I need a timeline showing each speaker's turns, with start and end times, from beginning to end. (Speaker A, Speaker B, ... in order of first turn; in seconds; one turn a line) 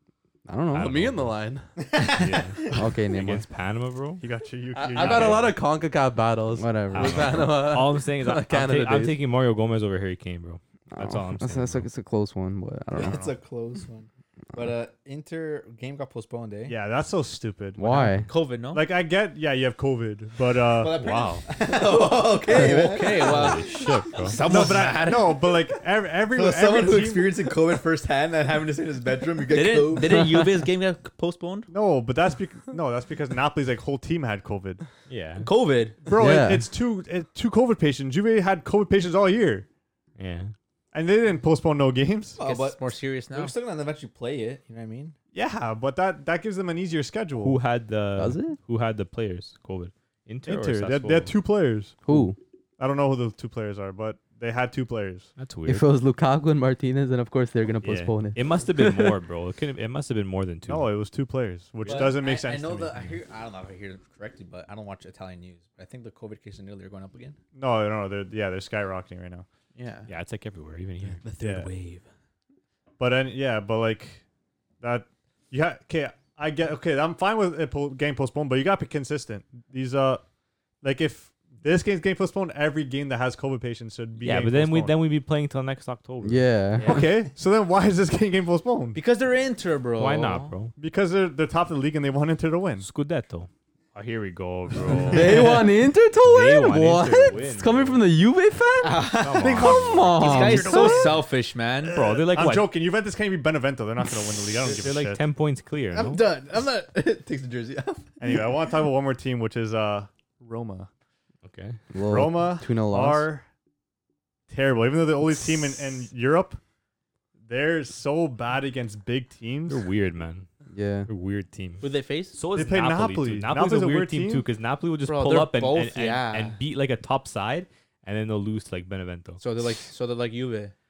Speaker A: 0.5-0.9
Speaker B: 0.7-1.4
Speaker C: 0.8-1.7
Speaker D: 1.9-2.4
Speaker B: 2.1-4.2
Speaker A: 2.7-3.4
Speaker E: 4.2-5.6
Speaker C: 4.7-9.2
Speaker B: 5.0-5.5
Speaker A: 6.6-7.5
Speaker B: 6.9-11.9
Speaker A: 10.9-13.2
Speaker E: 12.9-13.3
Speaker D: 13.0-16.8
Speaker E: 16.7-18.1
Speaker A: 17.8-18.3
Speaker F: 18.3-18.8
Speaker E: 18.7-21.0
Speaker D: 20.7-25.3
Speaker B: 21.0-21.5
Speaker F: 21.9-25.6
Speaker B: 23.2-24.4
Speaker E: 24.4-27.4
Speaker D: 26.3-30.3
Speaker F: 29.5-31.7
Speaker E: 31.7-34.8
Speaker B: 35.1-35.5
Speaker F: 35.4-36.0
Speaker E: 36.0-39.7
Speaker A: 36.1-36.6
Speaker B: 40.2-40.5
Speaker E: 40.9-42.4
Speaker D: 42.4-45.2
Speaker F: 42.4-43.5
Speaker E: 45.3-47.6
Speaker B: 47.4-51.4
Speaker A: 48.2-48.6
Speaker E: 50.5-52.0
Speaker A: 52.1-52.4
Speaker E: 52.8-55.3
Speaker B: 55.4-55.9
Speaker A: 55.7-59.1
Speaker B: 57.8-60.9
Speaker E: 60.7-63.1
Speaker D: 61.8-67.4
Speaker F: 61.9-62.1
Speaker E: 67.5-69.5
Speaker F: 69.8-70.1
Speaker B: 70.1-71.3
Speaker D: 71.3-71.9
Speaker E: 71.4-71.7
Speaker E: 73.0-74.2
Speaker E: 74.8-80.2
Speaker E: 80.8-85.0
Speaker B: 84.2-86.5
Speaker A: 86.2-87.0
Speaker E: 86.8-89.0
Speaker F: 88.9-90.5
Speaker B: 90.0-90.7
Speaker E: 90.8-92.9
Speaker B: 92.8-95.7
Speaker E: 94.9-95.4
Speaker A: 95.1-101.1
Speaker B: 96.2-98.0
Speaker F: 98.8-102.0
Speaker B: 99.2-100.2
Speaker E: 99.7-101.2
Speaker D: 100.2-101.2
Speaker E: 101.9-105.2
Speaker B: 101.9-102.7
Speaker B: 104.6-106.2
Speaker D: 105.9-108.1
Speaker E: 108.2-110.9
Speaker B: 111.4-111.8
Speaker A: 111.9-113.3
Speaker E: 112.0-113.5
Speaker E: 114.5-116.6
Speaker E: 117.4-119.9
Speaker B: 119.7-120.5
Speaker A: 120.7-121.1
Speaker B: 121.1-129.4
Speaker F: 121.8-122.4
Speaker E: 122.5-124.5
Speaker F: 125.0-126.6
Speaker F: 129.4-130.7